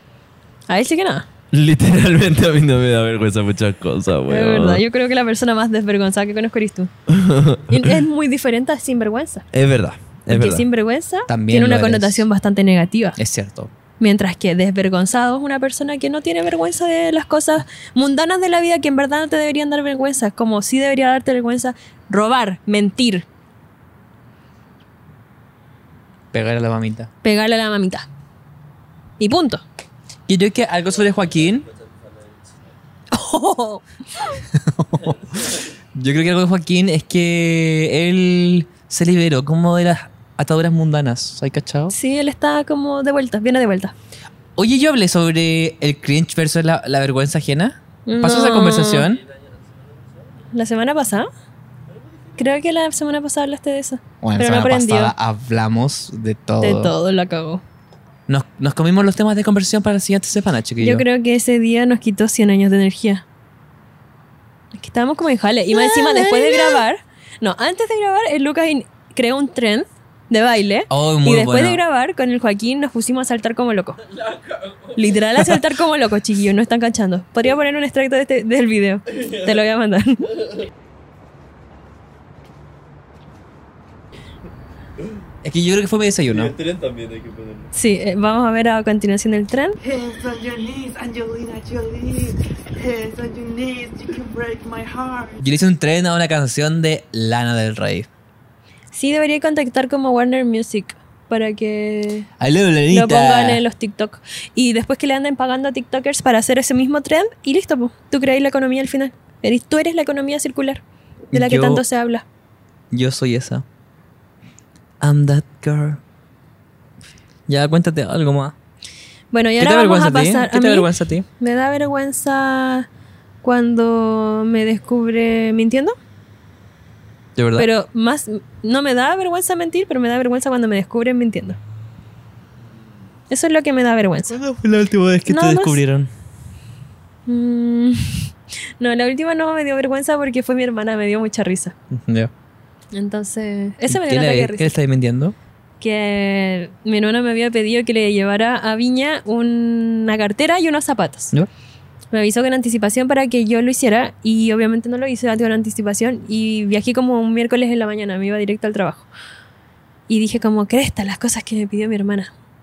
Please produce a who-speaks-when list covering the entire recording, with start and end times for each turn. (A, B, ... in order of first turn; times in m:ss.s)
0:00.7-0:01.3 A
0:01.5-0:04.8 B
0:04.3-0:06.9 A
0:07.1-0:07.9 B
0:07.7-0:09.5 A
0:09.5-0:10.7 B
0:10.3-0:13.2 A
0:11.3-0:12.3 C
0:13.2-0:13.7 C
0:14.0-0:23.3 A
0:26.3-0:27.1 C
0:27.2-0:28.1 A
0:29.2-0:29.6 A
0:30.3-0:31.7 C
0:30.8-0:32.8 D
0:33.1-0:34.4 A
0:34.7-0:35.2 C
0:34.9-0:35.7 D
0:36.0-0:41.9 C
0:41.9-0:43.9 A
0:44.6-0:49.2 C
0:48.1-0:49.1 A
0:49.0-0:50.4 D
0:50.5-0:51.3 A
0:51.9-0:52.6 D
0:52.4-0:55.1 A
0:54.2-0:56.9 C
0:56.6-0:57.6 A
0:58.3-1:01.0 C
1:00.8-1:03.2 A
1:04.8-1:14.0 A
1:05.8-1:06.8 C
1:10.9-1:11.8 C
1:14.0-1:15.2 D
1:15.0-1:20.3 A
1:19.1-1:19.5 D
1:25.4-1:26.5 C
1:26.3-1:27.7 D
1:27.7-1:29.8 A
1:29.8-1:35.4 E
1:35.4-1:38.1 C
1:38.9-1:42.3 A
1:42.4-1:43.6 C
1:42.9-1:52.3 A
1:51.3-1:51.8 C
1:52.9-1:53.6 C
1:55.0-1:56.0 C
1:57.5-1:58.6 C
1:59.3-2:00.9 A
1:59.6-2:01.3 C
2:01.4-2:02.9 A
2:03.4-2:06.0 A
2:07.4-2:07.7 C
2:07.6-2:11.6 A
2:13.3-2:14.4 A
2:14.3-2:16.1 C
2:15.3-2:15.8 A
2:17.3-2:21.8 A
2:21.9-2:22.3 C
2:22.9-2:24.7 A
2:23.9-2:25.4 C
2:25.8-2:31.3 A
2:32.1-2:39.1 A
2:40.1-2:42.3 A